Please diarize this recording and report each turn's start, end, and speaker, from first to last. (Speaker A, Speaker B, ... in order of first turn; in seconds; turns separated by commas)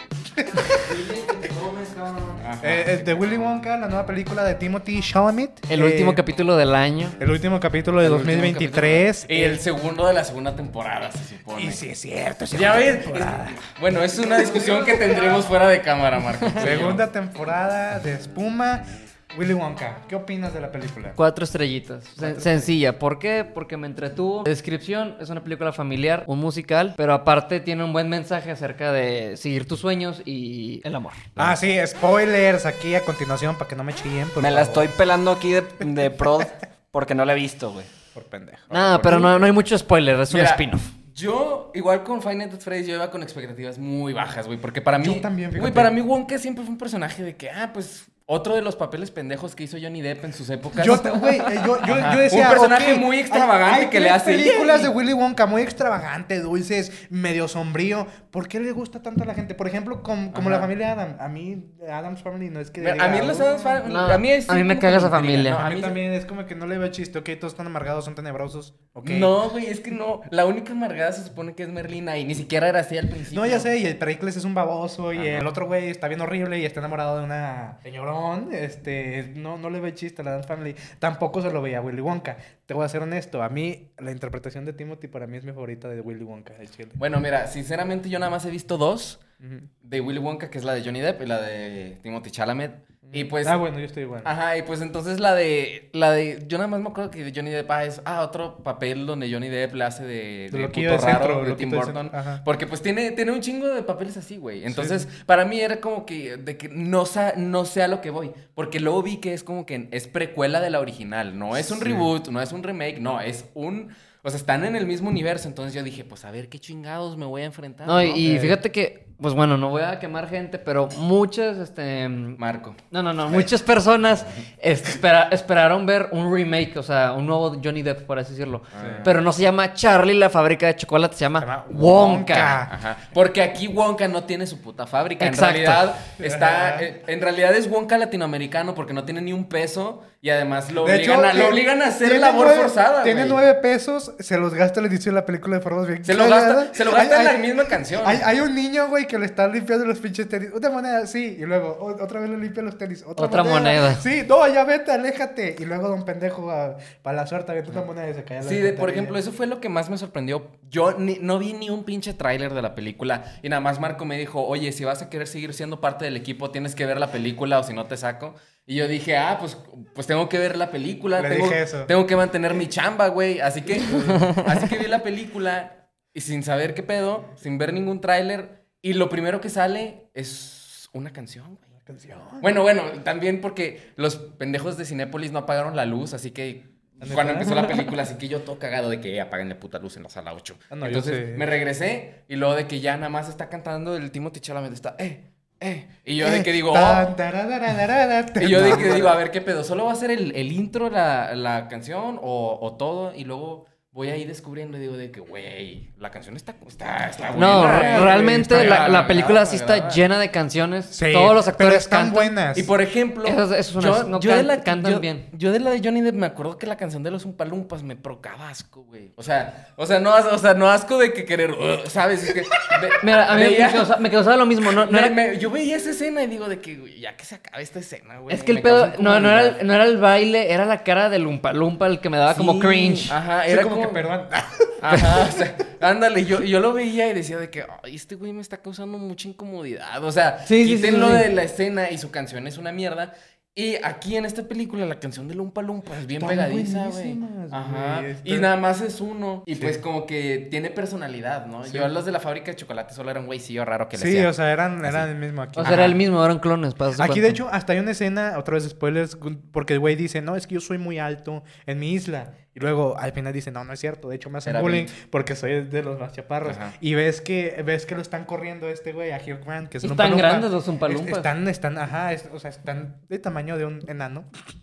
Speaker A: 0.5-0.8, Speaker B: 0.7-2.5, Speaker C: 2.4-3.7, Speaker A: 2.6-6.2, Speaker D: 5.7-7.2, Speaker A: 7.2-9.6, Speaker C: 8.0-11.8, Speaker A: 11.5-13.6, Speaker C: 12.5-17.0, Speaker A: 14.3-15.4, Speaker A: 16.6-21.2, Speaker D: 21.2-31.3, Speaker A: 22.2-22.7, Speaker A: 31.4-34.9, Speaker B: 34.4-37.9, Speaker A: 38.1-39.6, Speaker D: 38.7-40.9, Speaker C: 40.3-54.9, Speaker A: 45.0-45.9, Speaker A: 50.8-63.8, Speaker C: 60.3-60.7, Speaker C: 62.8-66.0, Speaker D: 63.9-65.6, Speaker A: 65.5-69.3, Speaker C: 69.0-73.7, Speaker A: 73.3-87.0, Speaker C: 75.1-75.5, Speaker C: 87.0-89.2, Speaker A: 89.4-89.7, Speaker C: 89.8-93.6, Speaker A: 93.1-94.3, Speaker C: 94.2-118.3, Speaker A: 100.5-102.4, Speaker A: 104.7-105.1, Speaker A: 111.6-112.1, Speaker D: 117.9-122.4, Speaker A: 118.2-118.6, Speaker C: 122.4-123.5, Speaker D: 122.9-132.6, Speaker C: 128.7-129.2, Speaker A: 128.8-129.1, Speaker A: 131.4-132.7, Speaker C: 132.7-143.4, Speaker D: 135.2-135.9, Speaker A: 136.2-136.9, Speaker A: 140.8-159.2, Speaker C: 146.0-148.3, Speaker D: 153.2-154.0, Speaker C: 158.4-181.7, Speaker A: 171.2-171.9, Speaker A: 173.9-174.2, Speaker A: 181.9-182.5, Speaker C: 182.4-197.1, Speaker A: 187.0-187.9, Speaker A: 190.7-191.5, Speaker A: 196.2-199.2, Speaker C: 198.4-210.0, Speaker A: 207.3-209.0, Speaker D: 207.3-212.3, Speaker A: 210.9-212.7, Speaker C: 212.5-224.0, Speaker D: 213.2-215.3, Speaker D: 222.9-225.2, Speaker C: 224.8-229.6, Speaker D: 228.3-233.2, Speaker C: 232.3-234.0, Speaker A: 233.5-235.4, Speaker C: 234.8-255.1, Speaker D: 240.4-241.3, Speaker A: 246.2-248.5, Speaker A: 251.7-251.9, Speaker A: 253.9-256.0, Speaker D: 255.6-257.4, Speaker C: 255.6-255.9, Speaker A: 257.0-274.3, Speaker C: 264.4-264.9, Speaker C: 266.4-266.7, Speaker D: 269.8-271.3